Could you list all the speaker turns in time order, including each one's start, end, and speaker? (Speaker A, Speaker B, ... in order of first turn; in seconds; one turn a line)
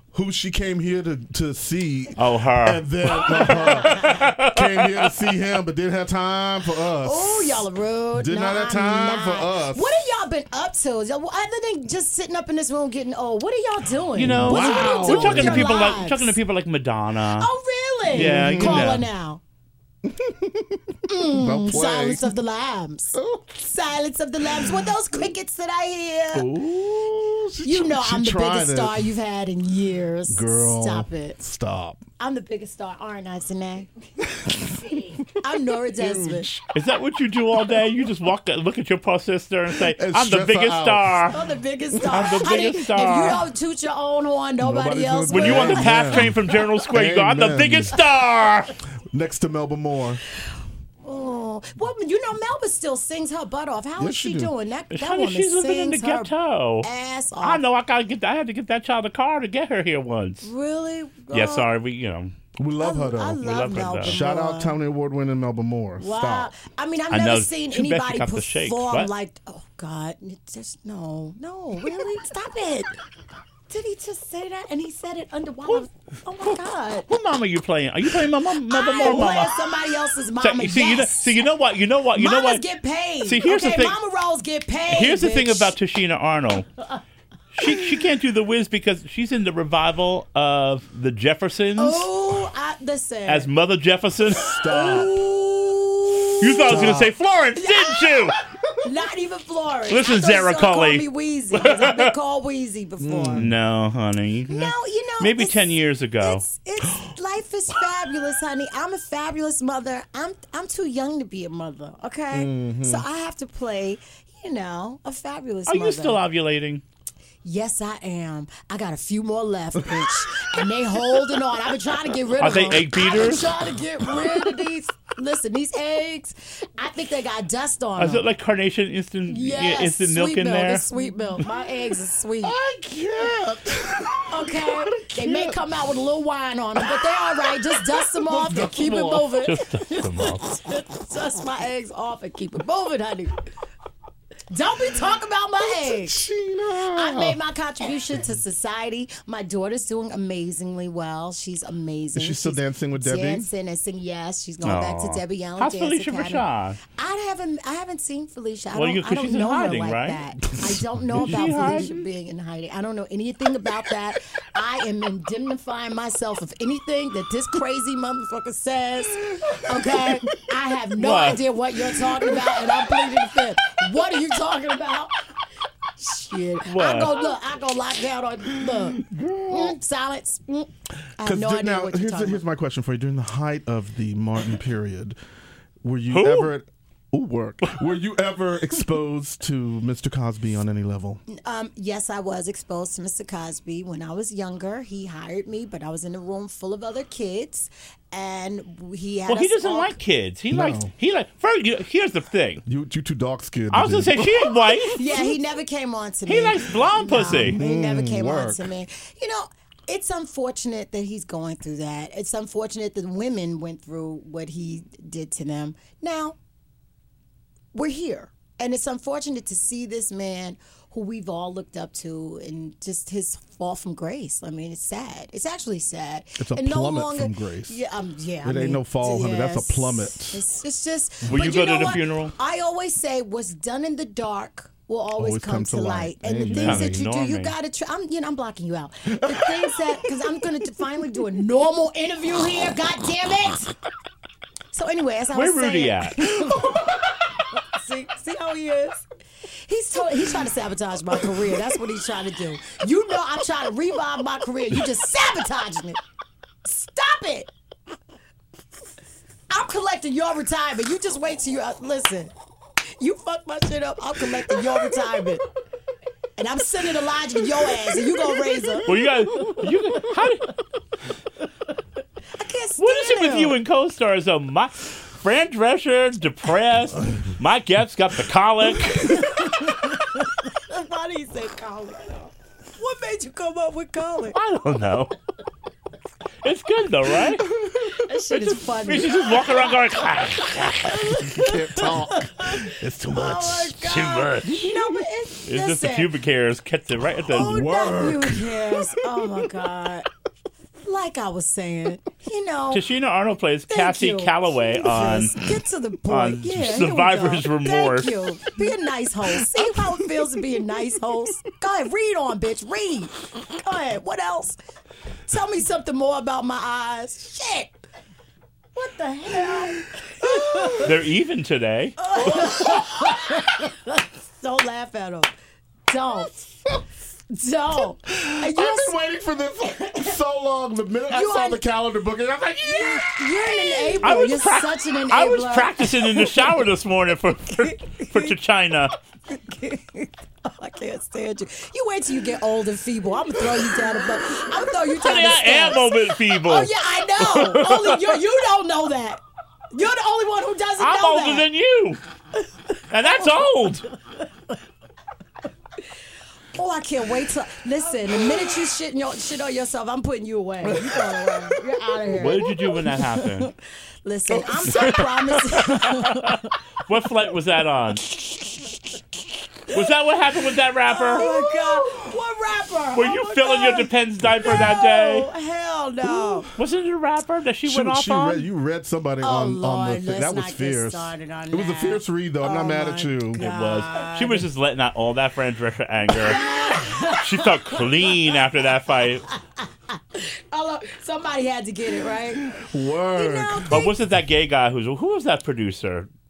Speaker A: 0.1-9.9
Speaker B: 2.1-5.2
Speaker C: 3.1-4.2
Speaker C: 7.0-16.3
Speaker B: 14.1-17.5
Speaker A: 14.2-15.8
Speaker C: 17.4-19.4
Speaker B: 18.1-19.1
Speaker A: 18.1-19.0
Speaker A: 20.0-22.3
Speaker C: 21.1-26.5
Speaker A: 23.1-23.5
Speaker A: 26.3-29.1
Speaker C: 27.6-31.4
Speaker A: 30.3-32.0
Speaker C: 32.2-33.9
Speaker A: 34.3-35.2
Speaker C: 34.9-36.5
Speaker A: 35.9-36.6
Speaker B: 36.7-41.4
Speaker A: 39.8-41.2
Speaker C: 41.3-46.6
Speaker A: 41.9-42.5
Speaker B: 42.1-43.4
Speaker A: 44.6-46.4
Speaker B: 45.3-48.7
Speaker A: 46.9-48.0
Speaker A: 49.1-50.2
Speaker C: 51.0-57.6
Speaker A: 54.0-54.5
Speaker B: 54.9-56.9
Speaker B: 57.4-60.5
Speaker C: 60.4-61.7
Speaker B: 61.3-62.3
Speaker A: 62.6-63.4
Speaker C: 62.8-64.8
Speaker B: 63.4-64.2
Speaker A: 64.0-66.5
Speaker C: 66.0-72.9
Speaker B: 67.1-69.1
Speaker C: 73.7-77.1
Speaker B: 77.1-79.6
Speaker C: 78.7-81.5
Speaker B: 80.4-82.6
Speaker C: 82.1-85.7
Speaker B: 83.2-84.0
Speaker B: 84.9-86.7
Speaker B: 87.5-92.1
Speaker C: 91.8-93.5
Speaker B: 93.3-94.5
Speaker A: 94.4-95.2
Speaker C: 94.5-97.0
Speaker B: 96.4-98.4
Speaker A: 96.5-97.1
Speaker C: 97.5-103.5
Speaker B: 99.9-102.1
Speaker A: 103.0-103.5
Speaker B: 103.3-106.4
Speaker C: 104.5-116.2
Speaker A: 112.3-113.0
Speaker B: 115.7-116.8
Speaker C: 117.4-128.2
Speaker A: 119.8-120.5
Speaker B: 122.4-123.5
Speaker B: 128.0-130.8
Speaker C: 129.3-132.5
Speaker A: 132.4-135.6
Speaker C: 134.3-143.4
Speaker A: 136.9-139.4
Speaker B: 139.4-140.5
Speaker C: 144.5-146.2
Speaker A: 145.7-147.4
Speaker C: 146.9-175.2
Speaker A: 152.1-153.5
Speaker B: 154.6-156.8
Speaker B: 158.7-160.2
Speaker A: 160.7-161.4
Speaker B: 161.1-162.0
Speaker A: 169.3-170.1
Speaker B: 171.0-171.4
Speaker C: 176.0-182.4
Speaker B: 176.7-177.2
Speaker A: 178.6-179.8
Speaker A: 181.2-185.2
Speaker A: 185.8-191.2
Speaker B: 186.1-186.5
Speaker C: 191.3-200.0
Speaker B: 199.3-202.6
Speaker A: 200.5-200.9
Speaker A: 202.6-204.5
Speaker B: 203.7-205.0
Speaker C: 204.9-216.3
Speaker B: 206.3-207.6
Speaker A: 207.3-208.7
Speaker C: 217.7-243.7
Speaker A: 226.4-227.8
Speaker A: 228.4-230.4
Speaker B: 231.3-232.3
Speaker A: 235.2-237.0
Speaker B: 236.5-237.5
Speaker A: 239.1-239.9
Speaker C: 244.7-247.0
Speaker B: 245.3-246.2
Speaker A: 246.4-246.9
Speaker C: 247.5-249.0
Speaker C: 249.6-256.0
Speaker C: 256.6-257.5
Speaker C: 259.5-262.3
Speaker C: 263.0-265.4
Speaker C: 266.4-269.6
Speaker B: 268.9-270.5
Speaker C: 272.3-273.6
Speaker B: 272.8-279.2
Speaker C: 278.9-284.4
Speaker B: 284.3-285.1
Speaker B: 286.4-287.5
Speaker A: 287.5-288.0
Speaker C: 287.8-289.7
Speaker B: 288.4-291.2
Speaker C: 290.7-296.1
Speaker A: 291.2-293.8
Speaker B: 293.8-294.8
Speaker B: 295.4-297.6
Speaker A: 297.3-299.3
Speaker C: 297.3-300.1
Speaker C: 300.8-302.8
Speaker B: 302.7-305.4
Speaker C: 303.7-314.6
Speaker B: 306.1-308.1
Speaker A: 309.6-309.9
Speaker C: 315.3-317.7
Speaker C: 318.7-320.9
Speaker A: 320.2-320.9
Speaker B: 320.8-322.0
Speaker C: 322.0-325.3
Speaker A: 322.2-323.4
Speaker C: 325.9-326.5
Speaker C: 327.3-328.9
Speaker A: 328.1-334.1
Speaker C: 331.1-331.6
Speaker C: 332.6-336.5
Speaker B: 334.0-338.9
Speaker C: 337.6-338.4
Speaker C: 339.3-351.5
Speaker B: 345.0-348.2
Speaker B: 350.8-352.0
Speaker B: 352.9-353.9
Speaker C: 353.0-353.5
Speaker C: 356.5-366.5
Speaker A: 360.6-361.6
Speaker B: 362.1-363.5
Speaker A: 364.3-365.0
Speaker B: 364.7-368.0
Speaker B: 369.7-371.2
Speaker C: 371.0-376.5
Speaker A: 371.1-372.1
Speaker B: 372.9-375.3
Speaker A: 376.2-376.5
Speaker B: 376.6-378.4
Speaker A: 377.6-383.4
Speaker C: 379.2-384.5
Speaker B: 383.4-389.3
Speaker C: 386.2-388.1
Speaker C: 389.6-392.5
Speaker A: 392.4-393.8
Speaker C: 393.1-394.0
Speaker B: 393.7-396.1